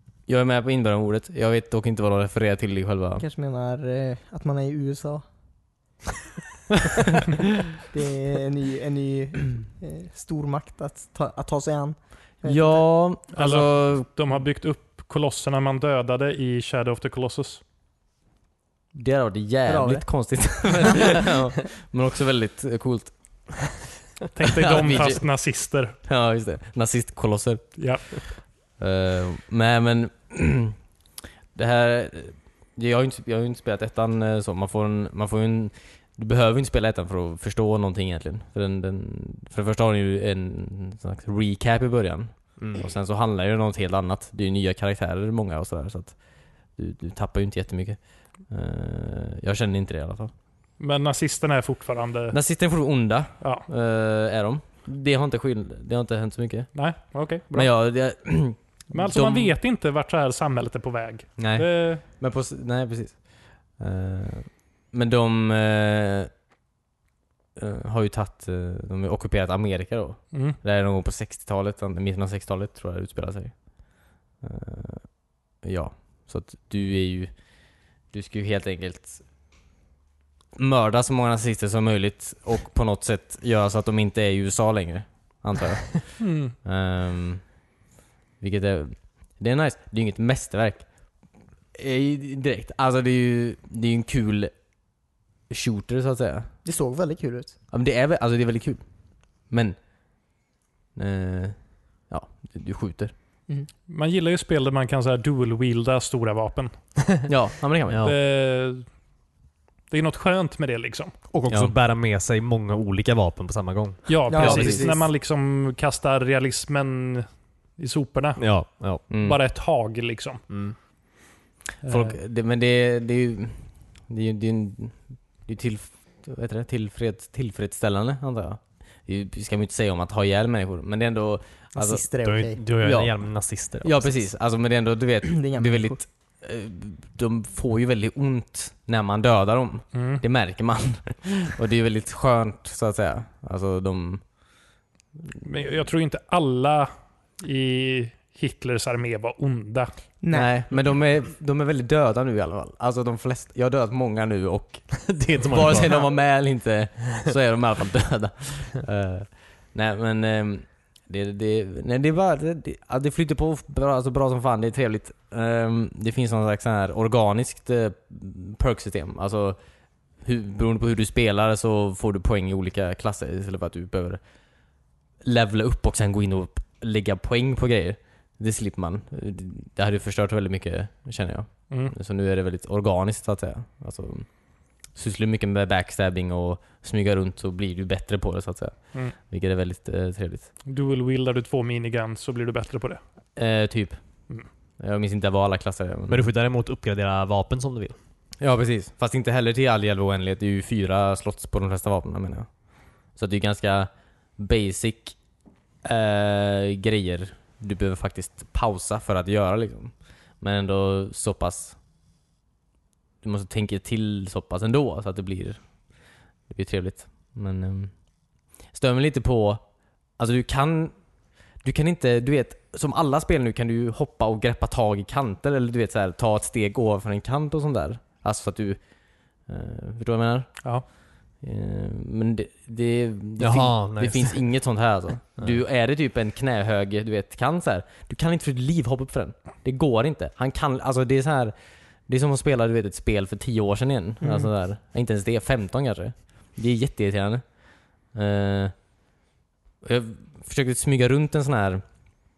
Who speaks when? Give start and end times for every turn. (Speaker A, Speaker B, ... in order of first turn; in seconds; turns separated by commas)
Speaker A: 0.3-3.2, Speaker B: 3.2-5.2, Speaker B: 7.9-12.9, Speaker A: 12.4-14.1, Speaker C: 13.3-17.6, Speaker A: 18.9-23.7, Speaker B: 19.6-20.0, Speaker C: 24.3-25.9, Speaker A: 24.6-25.3, Speaker A: 26.0-30.8, Speaker C: 27.8-28.1, Speaker A: 31.5-50.3, Speaker D: 42.6-42.9, Speaker C: 50.8-52.4, Speaker A: 52.3-56.8, Speaker C: 53.4-53.7, Speaker C: 56.7-57.7, Speaker A: 57.5-59.5, Speaker C: 58.9-62.0, Speaker A: 61.4-66.3, Speaker A: 67.5-79.2, Speaker C: 70.3-70.6, Speaker A: 80.5-87.6, Speaker C: 86.2-86.5, Speaker A: 88.4-91.2, Speaker A: 91.7-94.5, Speaker A: 95.5-96.5, Speaker B: 96.6-97.5, Speaker A: 97.7-98.8, Speaker A: 99.4-99.8, Speaker A: 100.9-103.1, Speaker C: 103.9-106.9, Speaker A: 107.2-108.0, Speaker D: 107.9-108.2, Speaker C: 108.0-108.9, Speaker C: 109.9-111.1, Speaker D: 111.3-114.5, Speaker A: 111.5-111.7, Speaker C: 114.1-120.4, Speaker B: 114.3-115.0, Speaker A: 114.3-114.9, Speaker D: 118.4-119.0, Speaker A: 119.1-119.4, Speaker D: 120.5-120.8, Speaker A: 121.8-132.0, Speaker C: 121.8-122.2, Speaker B: 131.7-132.6, Speaker D: 132.2-134.2, Speaker A: 132.8-133.2, Speaker A: 133.8-144.2, Speaker B: 135.3-136.0, Speaker C: 139.9-140.2, Speaker C: 145.4-149.9, Speaker B: 150.2-150.5, Speaker A: 150.3-169.6, Speaker D: 155.0-156.1, Speaker A: 170.2-174.2, Speaker A: 175.2-190.5, Speaker C: 190.6-193.0, Speaker A: 193.3-194.0, Speaker A: 194.8-196.2, Speaker D: 196.1-197.9, Speaker A: 198.4-202.5, Speaker A: 203.1-205.2, Speaker A: 205.8-211.8, Speaker A: 213.2-215.8, Speaker A: 216.5-219.6, Speaker A: 220.2-220.9, Speaker A: 221.6-228.8, Speaker A: 229.4-230.6, Speaker A: 231.3-241.5, Speaker D: 233.4-234.4, Speaker A: 242.1-247.4, Speaker A: 248.0-248.7, Speaker A: 249.8-251.8